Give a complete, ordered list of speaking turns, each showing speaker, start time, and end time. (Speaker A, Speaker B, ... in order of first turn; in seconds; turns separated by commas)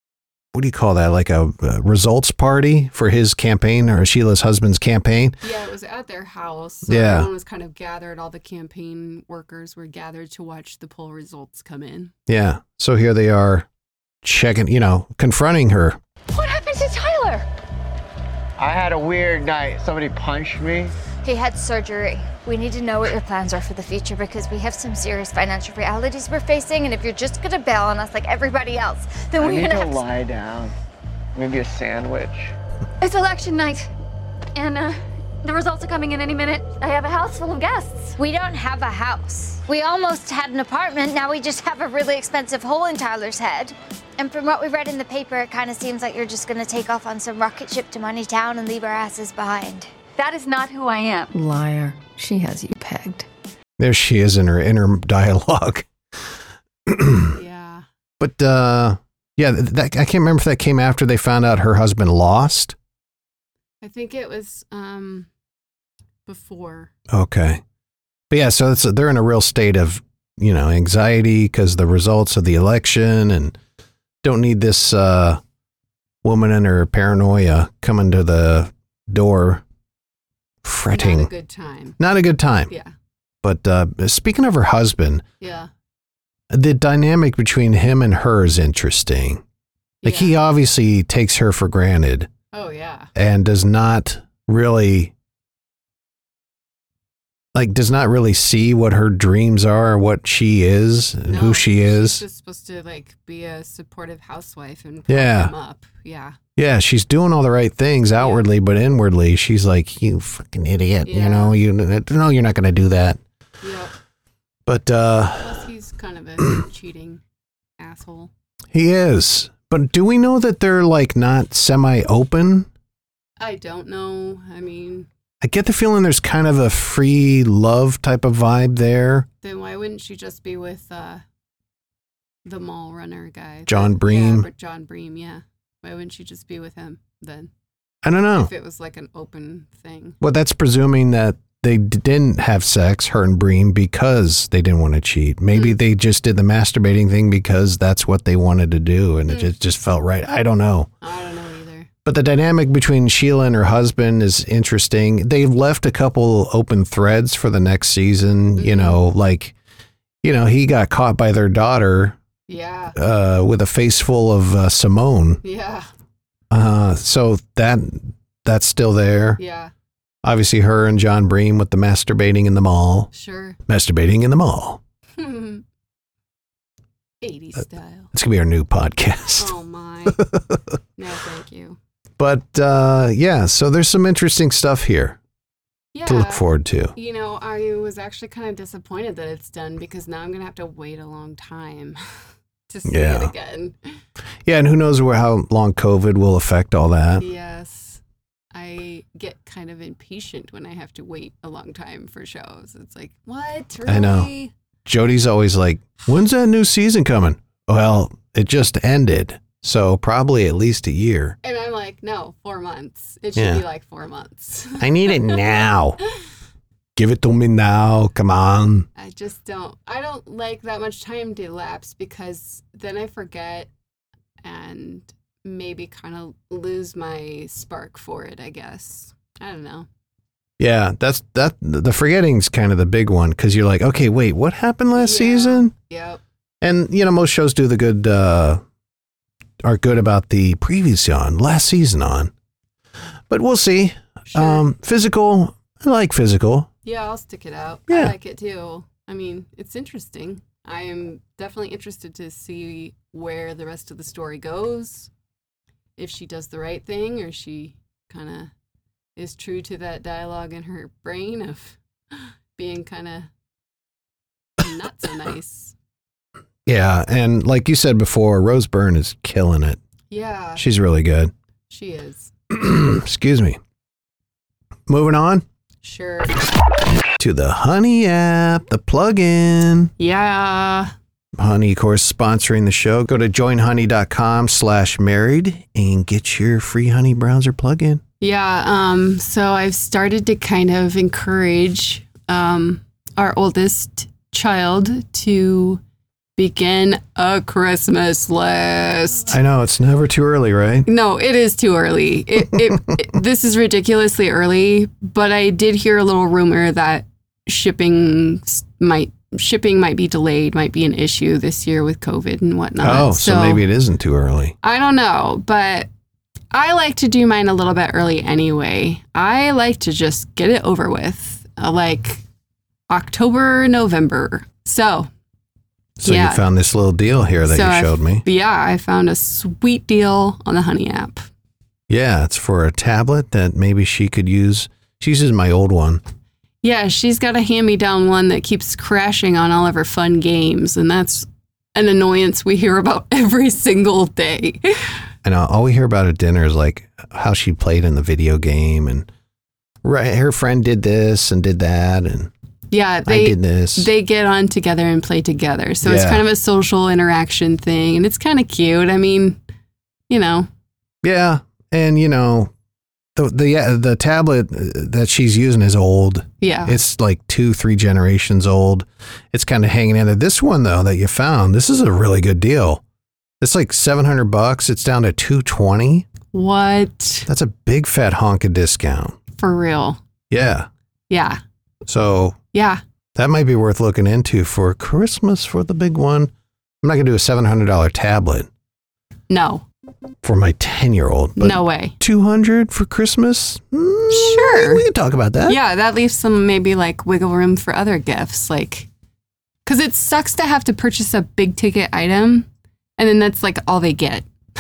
Speaker A: 0.5-5.4, Speaker B: 5.4-12.1, Speaker A: 6.9-7.3, Speaker A: 12.3-13.7, Speaker A: 14.2-16.0, Speaker C: 16.3-17.4, Speaker D: 18.6-20.9, Speaker C: 21.2-30.0, Speaker D: 29.4-30.7, Speaker D: 31.4-32.5, Speaker C: 33.0-33.9, Speaker C: 34.6-51.3, Speaker E: 51.3-53.3, Speaker A: 53.8-55.9, Speaker A: 56.9-57.4, Speaker B: 57.3-57.8, Speaker A: 58.2-62.8, Speaker B: 63.8-65.3, Speaker B: 66.3-66.9, Speaker A: 67.1-67.6, Speaker A: 68.3-73.5, Speaker A: 74.2-75.4, Speaker A: 76.2-79.6, Speaker A: 80.6-81.3, Speaker B: 80.9-82.0, Speaker A: 82.0-82.7, Speaker A: 83.4-85.2, Speaker B: 85.4-85.7, Speaker A: 86.5-89.4, Speaker B: 90.0-90.4, Speaker A: 90.0-92.3, Speaker B: 92.5-93.1, Speaker A: 93.2-95.1, Speaker A: 97.5-102.2, Speaker B: 101.3-106.4, Speaker A: 105.1-105.5, Speaker A: 106.6-113.2, Speaker B: 108.2-108.5, Speaker B: 111.0-111.6, Speaker B: 113.6-113.9, Speaker A: 114.7-115.6, Speaker B: 115.4-117.2, Speaker B: 117.8-118.3, Speaker A: 118.7-122.7, Speaker B: 123.4-125.1, Speaker A: 125.4-129.3, Speaker B: 129.4-131.2, Speaker B: 132.4-137.5, Speaker A: 133.7-134.5, Speaker A: 138.0-138.5, Speaker B: 138.3-140.2, Speaker A: 140.2-150.9, Speaker B: 151.0-151.9, Speaker A: 152.1-159.5, Speaker B: 158.6-159.0, Speaker A: 160.2-162.2, Speaker B: 162.5-163.0, Speaker A: 162.9-165.4, Speaker B: 165.4-165.9, Speaker A: 166.5-169.4, Speaker B: 169.4-169.7, Speaker A: 170.2-173.1, Speaker B: 173.1-173.6, Speaker A: 173.7-174.8, Speaker B: 175.2-175.6, Speaker B: 177.2-178.1, Speaker A: 178.1-179.5, Speaker B: 179.4-180.2, Speaker A: 180.1-180.6, Speaker B: 181.0-181.8, Speaker A: 182.2-185.2, Speaker B: 185.9-192.0, Speaker A: 186.1-186.9, Speaker B: 192.7-193.8, Speaker A: 192.8-193.3, Speaker A: 194.5-197.3, Speaker B: 197.2-198.0, Speaker B: 198.5-204.5, Speaker A: 203.9-204.3, Speaker A: 204.9-211.4, Speaker B: 211.4-215.4, Speaker A: 213.3-213.6, Speaker A: 214.8-216.0, Speaker A: 217.0-218.9, Speaker B: 219.0-223.7, Speaker B: 224.4-229.9, Speaker A: 230.6-235.7, Speaker B: 235.0-236.2, Speaker A: 236.6-238.6, Speaker A: 239.6-242.3, Speaker A: 243.3-246.7, Speaker B: 244.3-244.6, Speaker B: 246.8-255.1, Speaker A: 247.9-248.1, Speaker B: 256.0-258.5, Speaker B: 259.2-263.3, Speaker B: 264.6-265.8, Speaker A: 266.7-269.8, Speaker B: 270.1-270.6, Speaker A: 270.6-271.3, Speaker B: 271.7-272.3, Speaker A: 272.5-273.6, Speaker A: 274.9-275.4, Speaker B: 275.8-276.3, Speaker A: 277.2-279.9, Speaker B: 280.0-280.9, Speaker A: 281.4-288.0, Speaker B: 288.2-295.8, Speaker B: 296.4-299.4, Speaker A: 299.3-300.9, Speaker B: 300.9-313.6, Speaker A: 312.8-314.6, Speaker B: 314.6-315.9, Speaker B: 316.5-322.2, Speaker B: 322.9-325.1, Speaker A: 326.0-328.2, Speaker B: 326.0-326.4, Speaker B: 327.4-331.2, Speaker A: 331.9-336.0, Speaker B: 336.6-345.0, Speaker A: 345.2-349.1, Speaker A: 349.8-352.3, Speaker B: 352.7-359.4, Speaker A: 353.1-353.9, Speaker A: 355.8-356.2, Speaker B: 360.1-360.5, Speaker A: 361.0-362.5, Speaker A: 363.2-372.8, Speaker B: 366.4-366.8, Speaker A: 373.4-376.1, Speaker B: 376.3-377.3, Speaker A: 377.3-379.2, Speaker B: 379.4-380.0, Speaker A: 380.3-380.7, Speaker B: 381.1-381.4, Speaker A: 381.9-382.4, Speaker B: 382.5-382.8, Speaker A: 383.2-386.3, Speaker A: 386.8-388.5, Speaker B: 389.3-389.6, Speaker A: 390.2-395.6, Speaker B: 391.4-391.9, Speaker B: 394.1-394.9, Speaker B: 395.5-398.9, Speaker B: 399.7-402.5, Speaker B: 403.0-404.3